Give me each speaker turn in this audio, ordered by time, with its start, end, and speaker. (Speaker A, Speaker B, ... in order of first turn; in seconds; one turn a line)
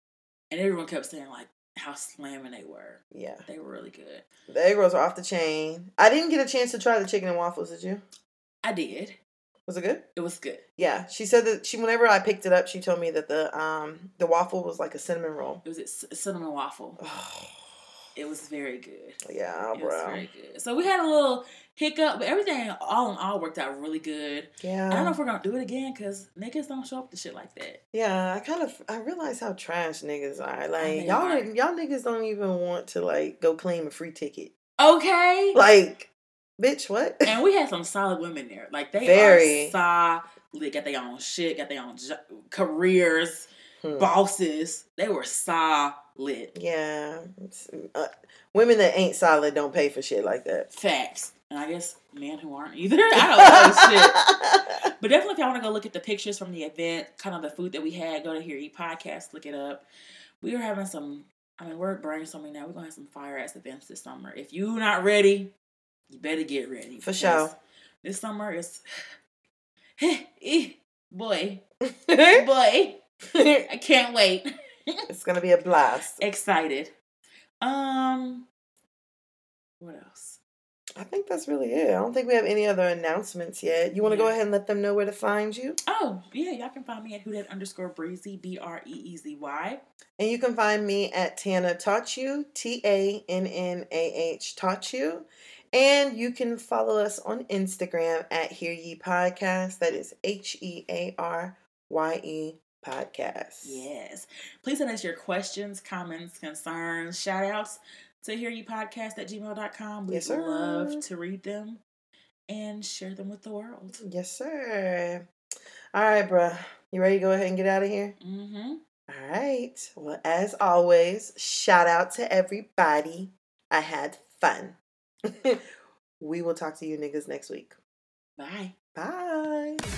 Speaker A: 0.5-4.2
Speaker B: 3.1-3.5
Speaker B: 4.5-8.0
Speaker A: 8.6-9.2
Speaker B: 9.7-10.0
Speaker A: 10.2-10.6
Speaker B: 10.8-15.6
Speaker A: 15.6-17.0
Speaker B: 17.0-17.6
Speaker A: 18.2-27.8
Speaker B: 19.2-20.3
Speaker B: 24.6-25.2
Speaker B: 27.9-34.5
Speaker A: 30.8-31.5
Speaker A: 34.8-35.6
Speaker B: 35.5-37.3
Speaker A: 37.2-46.5
Speaker B: 39.0-39.8
Speaker B: 43.8-44.1
Speaker B: 46.5-50.7
Speaker A: 50.7-54.3
Speaker B: 53.1-54.8
Speaker A: 55.0-59.8
Speaker A: 60.4-65.5
Speaker A: 66.1-68.8
Speaker B: 67.0-67.5
Speaker A: 70.0-71.6
Speaker B: 71.9-72.4
Speaker A: 72.2-73.0
Speaker A: 73.7-75.0
Speaker B: 75.1-76.2
Speaker A: 76.2-76.9
Speaker A: 77.6-78.5
Speaker A: 79.8-80.4
Speaker B: 81.0-85.8
Speaker A: 84.0-84.4
Speaker A: 85.9-89.8
Speaker B: 90.2-103.8
Speaker A: 103.6-111.8
Speaker B: 110.1-111.0
Speaker A: 112.5-114.0
Speaker B: 114.0-115.2
Speaker B: 115.9-118.2
Speaker A: 118.2-118.8
Speaker B: 119.1-124.8
Speaker B: 125.3-125.6
Speaker B: 126.2-127.8
Speaker A: 128.4-128.7
Speaker B: 128.9-129.8